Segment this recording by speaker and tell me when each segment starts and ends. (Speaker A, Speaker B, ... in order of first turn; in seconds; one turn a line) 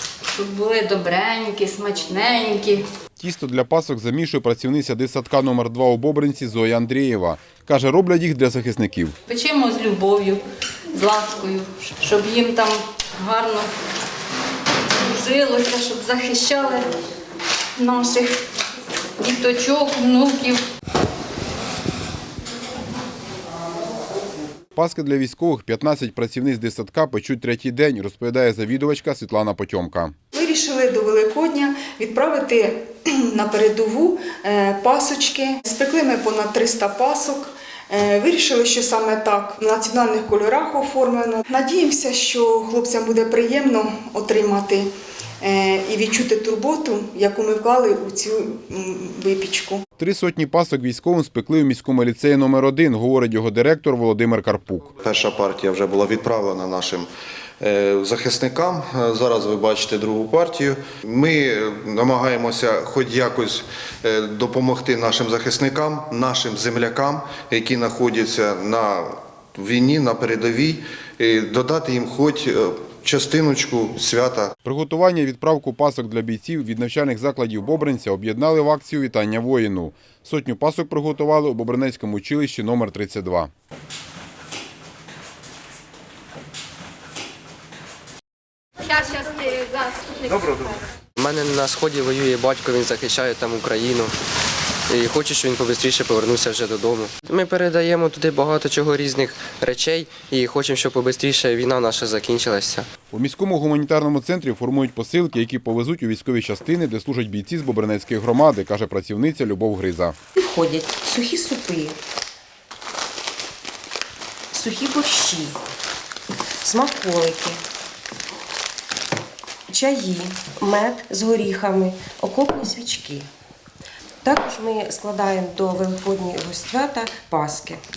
Speaker A: 0.3-2.8
Speaker B: 3.2-9.1
Speaker A: 9.3-13.7
Speaker A: 14.9-16.9
Speaker A: 17.8-18.3
Speaker A: 19.2-20.6
Speaker B: 24.8-30.1
Speaker C: 30.3-44.9
Speaker C: 45.4-49.8
Speaker B: 50.0-54.9
Speaker D: 55.0-57.1
Speaker D: 57.6-74.5
Speaker B: 74.7-83.5
Speaker E: 90.2-94.1
Speaker E: 94.9-102.9
Speaker B: 103.1-110.2
Speaker F: 110.4-112.0
Speaker F: 114.5-115.5
Speaker F: 116.6-117.6
Speaker F: 119.7-123.3
Speaker F: 124.2-127.8